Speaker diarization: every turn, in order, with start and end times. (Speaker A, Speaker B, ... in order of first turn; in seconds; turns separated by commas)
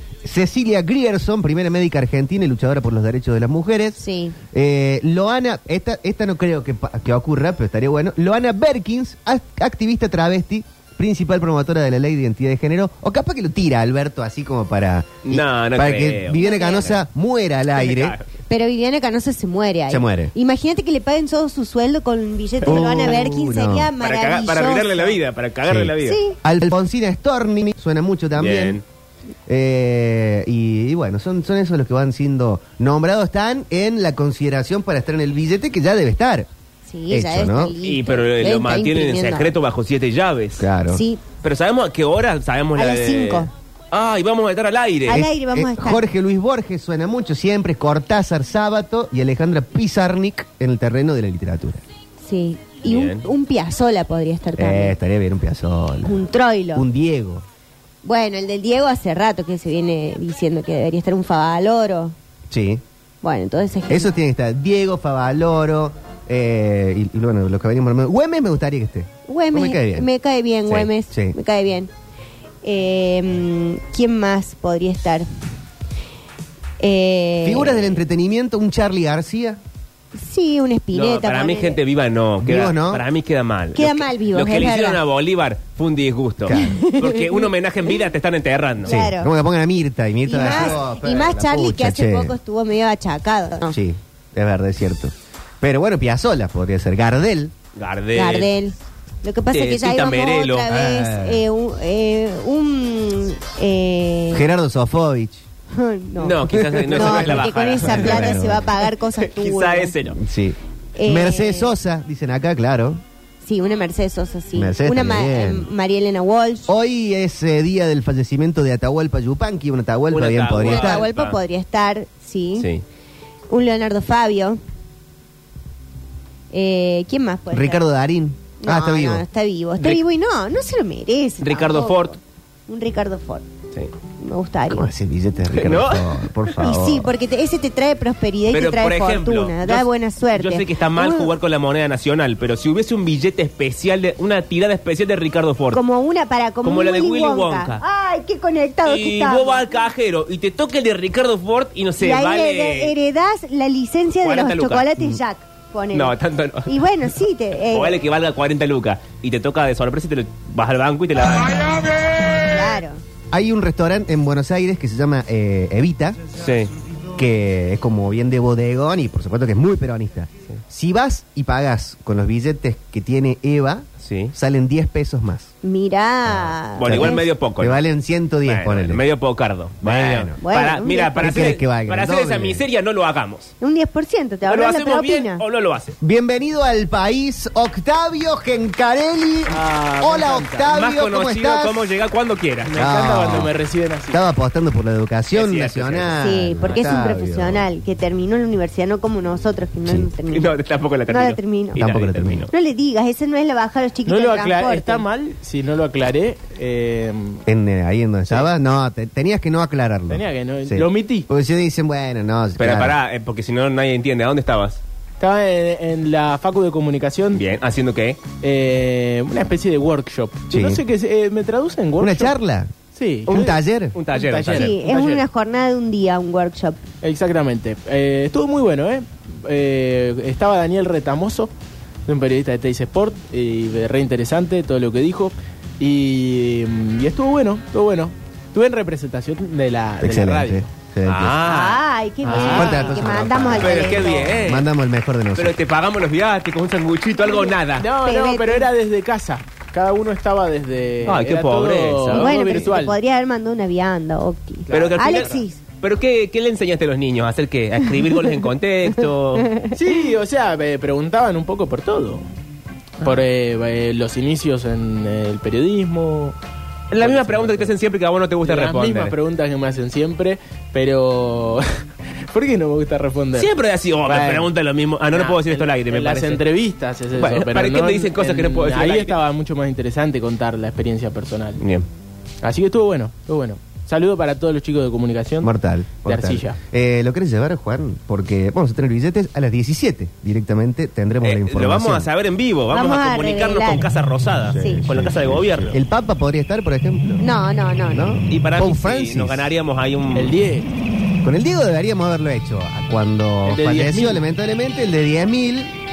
Speaker A: 0.2-4.0, Speaker B: 4.0-4.4, Speaker A: 4.5-18.2, Speaker C: 15.3-17.0, Speaker B: 16.4-16.9, Speaker C: 17.7-18.3, Speaker B: 18.5-25.2, Speaker A: 19.9-20.3, Speaker A: 22.6-23.9, Speaker C: 24.0-26.2, Speaker A: 25.6-28.8, Speaker B: 26.0-26.4, Speaker C: 28.4-28.8, Speaker A: 29.5-36.5, Speaker B: 36.9-39.6, Speaker A: 37.1-37.7, Speaker C: 37.8-40.7, Speaker A: 40.6-41.0, Speaker B: 40.9-41.2, Speaker C: 41.4-45.2, Speaker B: 42.8-43.5, Speaker B: 45.1-46.0, Speaker A: 45.1-51.8, Speaker B: 52.2-55.0, Speaker C: 52.9-53.2, Speaker A: 54.6-56.1, Speaker B: 56.0-56.9, Speaker A: 56.8-57.4, Speaker B: 58.0-62.1, Speaker A: 62.5-62.8, Speaker B: 63.2-64.1, Speaker A: 63.9-70.1, Speaker B: 69.3-71.9, Speaker A: 70.7-71.4, Speaker B: 72.6-75.3, Speaker B: 76.8-77.8, Speaker A: 77.4-79.6, Speaker C: 77.7-78.0, Speaker B: 80.2-81.8, Speaker C: 80.9-89.0, Speaker A: 82.4-83.0, Speaker B: 83.8-85.0, Speaker A: 86.5-86.8, Speaker B: 86.5-87.4, Speaker B: 88.8-89.3, Speaker A: 88.8-92.3, Speaker B: 90.2-93.8, Speaker C: 90.3-90.8, Speaker A: 93.7-97.5, Speaker C: 97.8-98.5, Speaker B: 98.2-104.5, Speaker C: 99.5-100.7, Speaker A: 100.7-101.4, Speaker A: 104.3-105.4, Speaker B: 105.7-110.0, Speaker C: 106.2-108.6, Speaker A: 106.5-108.7, Speaker C: 109.2-110.2, Speaker A: 110.1-113.0, Speaker B: 111.0-111.8, Speaker B: 113.4-116.7, Speaker A: 114.5-115.7, Speaker A: 116.7-121.1, Speaker C: 120.1-121.4, Speaker B: 120.6-122.7, Speaker C: 122.6-122.8, Speaker B: 123.5-124.6, Speaker B: 126.5-127.8, Speaker A: 127.5-129.2, Speaker B: 128.6-133.5, Speaker C: 131.4-132.2, Speaker B: 134.2-134.9, Speaker A: 134.7-137.1, Speaker C: 135.5-136.2, Speaker B: 136.6-141.3, Speaker C: 138.5-145.8, Speaker B: 145.7-149.7, Speaker C: 146.6-147.8, Speaker C: 148.9-152.9, Speaker B: 152.0-158.0, Speaker C: 154.2-154.9, Speaker C: 155.9-156.8, Speaker C: 157.7-161.9, Speaker B: 162.4-163.0, Speaker A: 163.3-166.3, Speaker C: 166.4-166.7, Speaker A: 167.2-175.5, Speaker C: 174.0-174.3, Speaker B: 175.6-177.3, Speaker C: 176.5-177.8, Speaker A: 176.8-179.0, Speaker C: 178.4-183.5, Speaker A: 179.8-182.7, Speaker B: 180.4-181.6, Speaker B: 183.6-185.4, Speaker C: 184.5-186.0, Speaker A: 186.0-191.9, Speaker D: 189.5-190.7, Speaker C: 190.7-192.8, Speaker D: 192.7-194.2, Speaker A: 192.7-193.5, Speaker A: 194.1-197.7, Speaker C: 195.3-196.2, Speaker B: 196.2-201.8, Speaker C: 200.3-202.5, Speaker A: 201.8-202.5, Speaker B: 202.5-205.1, Speaker D: 204.1-207.4, Speaker A: 207.5-213.0, Speaker D: 210.1-211.3, Speaker C: 212.6-214.8, Speaker D: 215.2-217.4, Speaker C: 217.3-218.2, Speaker D: 218.3-222.3, Speaker A: 220.5-220.8, Speaker A: 222.0-222.7, Speaker D: 222.9-223.6, Speaker A: 223.3-224.0, Speaker C: 223.9-224.7, Speaker D: 224.1-225.2, Speaker B: 224.5-226.8, Speaker D: 227.0-231.5, Speaker D: 232.1-240.6, Speaker A: 240.0-241.4, Speaker C: 241.1-244.7, Speaker B: 241.4-244.4, Speaker A: 242.3-245.6, Speaker C: 245.3-247.9, Speaker D: 247.3-252.9, Speaker B: 248.0-248.7, Speaker C: 251.0-252.7, Speaker B: 252.1-255.6, Speaker D: 254.7-255.3, Speaker C: 254.7-259.5, Speaker B: 259.5-259.8, Speaker D: 259.7-262.3, Speaker D: 263.1-266.4, Speaker C: 266.9-269.2, Speaker D: 267.0-267.8, Speaker D: 268.4-274.5, Speaker C: 273.3-276.5, Speaker D: 275.1-281.6, Speaker C: 277.1-279.2, Speaker C: 281.6-281.9, Speaker D: 282.4-285.5, Speaker A: 285.4-292.1, Speaker D: 286.1-286.6, Speaker C: 291.2-295.8, Speaker B: 292.7-293.9, Speaker A: 294.5-297.2, Speaker B: 294.6-294.8, Speaker B: 297.2-298.1, Speaker A: 297.9-299.5, Speaker C: 298.3-300.4, Speaker D: 300.1-300.7, Speaker A: 301.2-305.7, Speaker D: 303.5-304.2